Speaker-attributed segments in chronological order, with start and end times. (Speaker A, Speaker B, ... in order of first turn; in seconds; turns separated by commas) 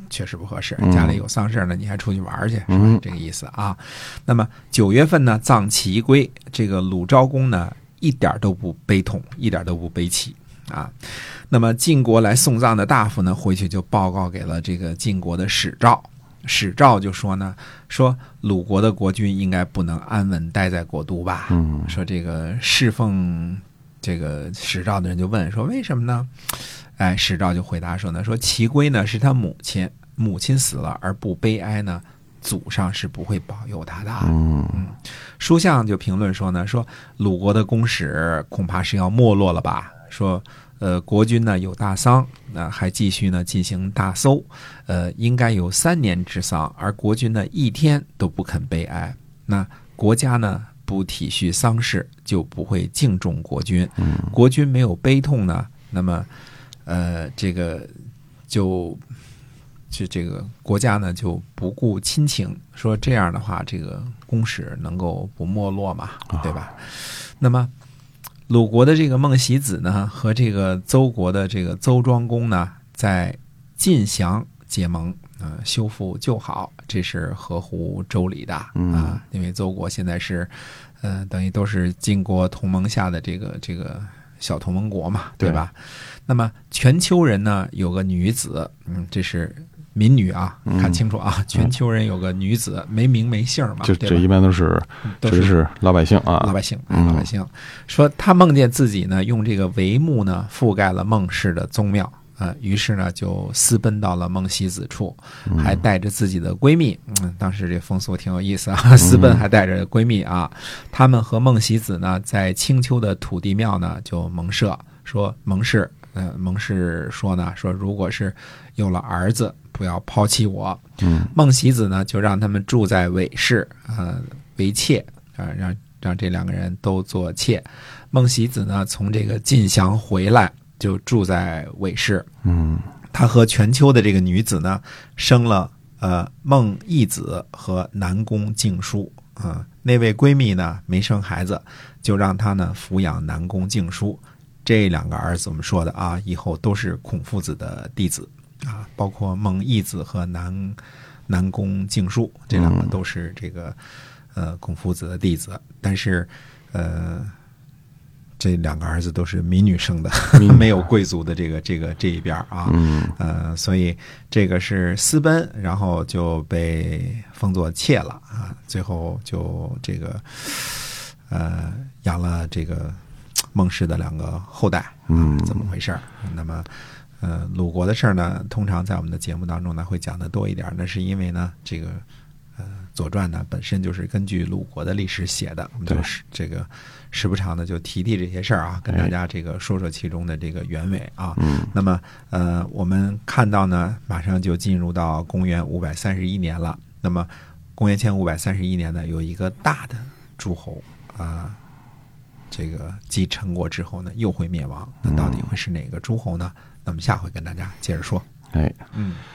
Speaker A: 0.1-56.3, Speaker B: 0.8-1.2, Speaker B: 2.7-3.0, Speaker B: 21.5-21.9, Speaker B: 34.2-34.8, Speaker B: 54.0-54.3, Speaker A: 56.9-57.9, Speaker A: 58.5-59.0, Speaker A: 59.9-67.7, Speaker A: 68.5-94.3, Speaker B: 78.8-79.2, Speaker B: 90.7-91.0, Speaker B: 93.8-97.3, Speaker A: 95.1-95.6, Speaker A: 96.4-132.3, Speaker B: 105.5-105.8, Speaker B: 109.0-109.4, Speaker B: 121.0-121.3, Speaker B: 132.4-132.9, Speaker A: 133.1-153.8, Speaker B: 152.5-152.9, Speaker A: 154.3-157.3, Speaker A: 158.4-173.0, Speaker B: 160.3-160.7, Speaker B: 162.7-163.2, Speaker A: 173.5-176.7, Speaker B: 175.1-175.7, Speaker A: 177.2-182.0, Speaker A: 182.6-201.6, Speaker B: 191.4-191.7, Speaker A: 202.5-208.3, Speaker B: 205.1-205.5, Speaker B: 208.5-208.8, Speaker A: 208.9-209.2